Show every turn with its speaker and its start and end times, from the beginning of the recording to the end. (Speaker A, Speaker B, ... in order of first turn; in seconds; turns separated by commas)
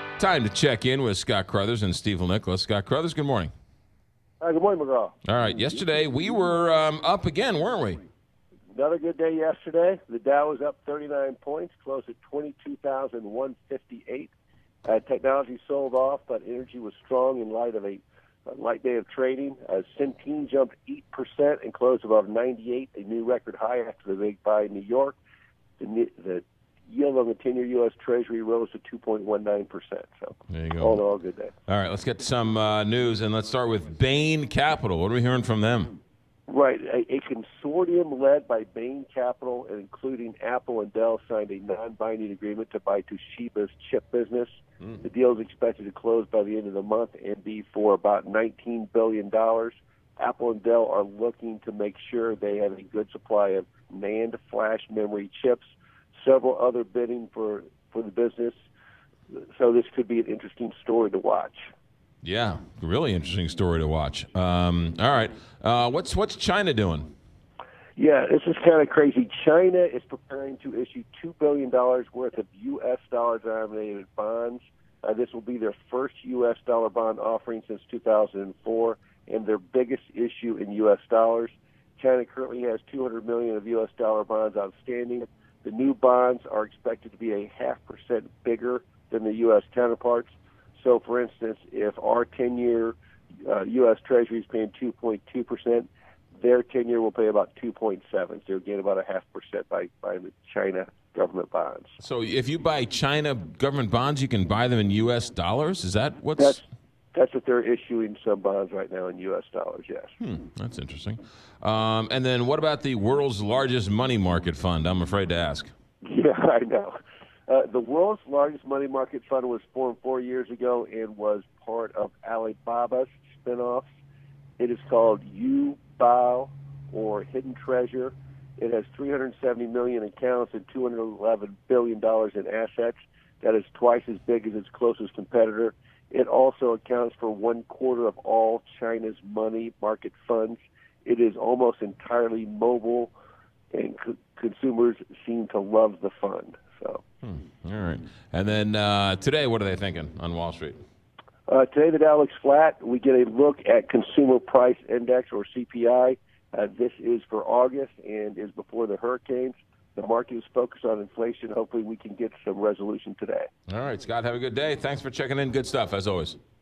Speaker A: 0.2-3.5, Speaker B: 4.4-5.1, Speaker A: 5.2-8.0, Speaker B: 8.7-14.3, Speaker B: 14.8-25.1, Speaker B: 25.8-31.5, Speaker A: 30.5-31.0, Speaker A: 31.7-35.9, Speaker B: 36.5-58.6, Speaker B: 59.3-61.7, Speaker A: 62.2-67.1, Speaker B: 68.0-101.9, Speaker A: 102.0-106.6, Speaker B: 106.4-110.2, Speaker A: 110.2-115.7, Speaker B: 116.0-123.8, Speaker B: 124.6-143.1, Speaker B: 143.7-147.0, Speaker A: 147.2-150.8, Speaker B: 151.5-163.5, Speaker A: 163.7-166.4